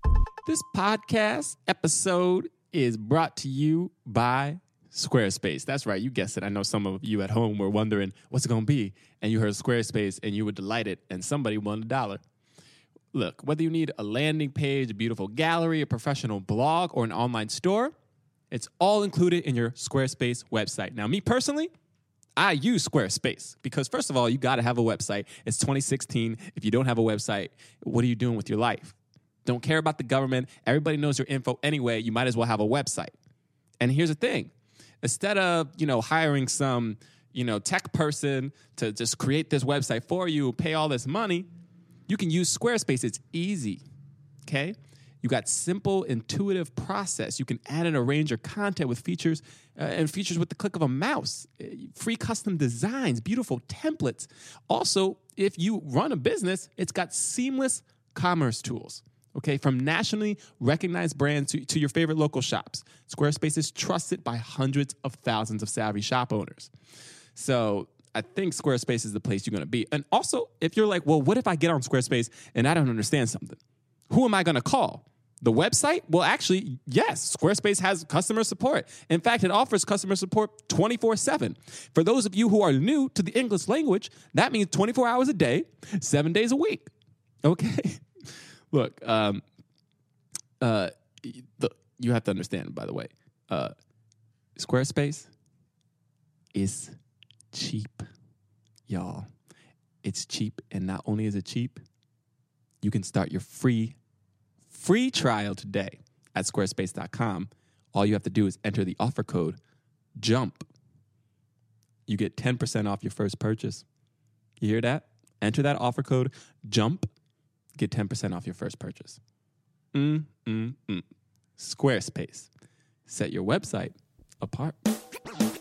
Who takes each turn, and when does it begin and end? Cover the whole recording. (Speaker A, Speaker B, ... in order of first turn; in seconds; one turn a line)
Speaker A: 0.5-12.2
Speaker A: 13.1-17.9
Speaker A: 18.5-21.7
Speaker A: 22.4-33.1
Speaker A: 33.8-34.5
Speaker A: 35.0-41.5
Speaker A: 42.1-43.8
Speaker A: 44.5-66.7
Speaker A: 67.3-73.6
Speaker A: 74.1-86.9
Speaker A: 87.4-88.0
Speaker A: 88.7-89.4
Speaker A: 90.6-93.7
Speaker A: 94.6-95.3
Speaker A: 96.5-96.9
Speaker A: 97.5-98.0
Speaker A: 98.9-99.3
Speaker A: 100.0-101.8
Speaker A: 102.8-103.9
Speaker A: 104.7-109.6
Speaker A: 110.2-110.6
Speaker A: 112.1-113.8
Speaker A: 114.6-117.0
Speaker A: 117.8-119.2
Speaker A: 119.9-121.0
Speaker A: 121.6-122.5
Speaker A: 123.1-124.8